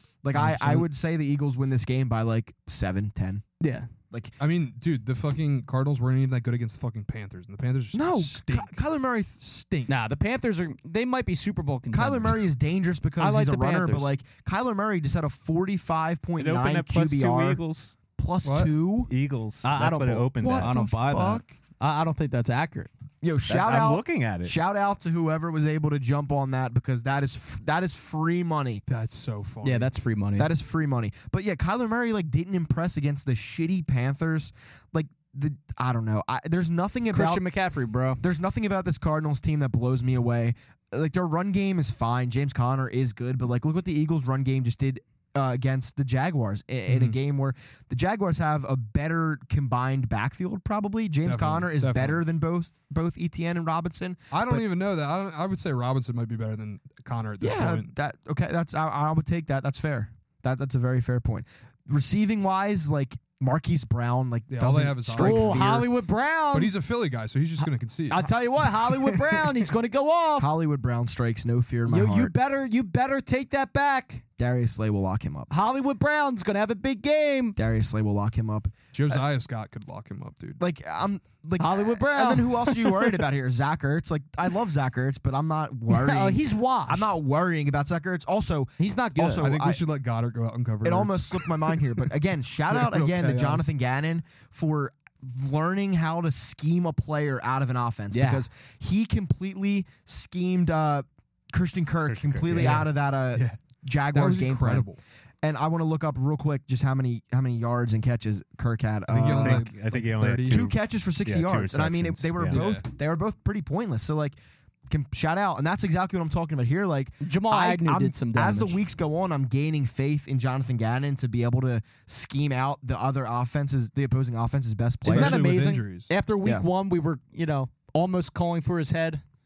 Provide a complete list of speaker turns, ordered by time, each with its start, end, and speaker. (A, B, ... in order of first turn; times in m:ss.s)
0:00.2-0:03.4 A
0:00.3-0:00.8 B
0:03.6-0:03.9 B
0:04.4-0:08.8 C
0:07.9-0:09.4 A
0:09.4-0:09.9 C
0:09.9-0:12.4 B
0:11.9-0:17.6 A
0:13.2-0:14.1 B
0:16.4-0:17.9 D
0:18.2-0:19.1 A
0:18.4-0:18.7 C
0:19.1-0:20.8 D
0:19.6-0:22.9 B
0:20.4-0:21.5 A
0:23.2-0:28.8 A
0:23.5-0:24.6 D
0:28.9-0:29.9 C
0:29.6-0:30.5 B
0:30.4-0:37.4 A
0:37.1-0:38.2 B
0:38.2-0:54.6 A
0:46.9-0:47.2 C
0:51.2-0:52.2 C
0:54.3-0:57.9 C
0:57.4-1:05.9 A
1:04.5-1:05.8 C
1:05.2-1:06.7 B
1:06.5-1:09.7 C
1:08.1-1:10.5 B
1:10.4-1:12.3 A
1:11.8-1:14.2 B
1:14.4-1:15.5 A
1:15.5-1:17.6 B
1:17.6-1:19.2 A
1:18.9-1:20.6 C
1:20.6-1:29.8 A
1:21.6-1:23.2 B
1:25.9-1:27.1 B
1:28.8-1:29.5 B
1:29.4-1:31.8 C
1:30.8-1:44.9 A
1:32.7-1:33.7 C
1:38.1-1:38.4 B
1:42.0-1:42.8 D
1:42.5-1:43.6 C
1:44.1-1:45.0 C
1:45.4-1:49.6 A
1:49.1-1:50.6 C
1:49.2-1:52.6 D
1:50.4-1:54.4 A
1:52.5-1:52.8 C
1:54.9-2:05.4 A
1:57.2-1:58.8 B
2:05.0-2:09.2 B
2:05.0-2:06.1 C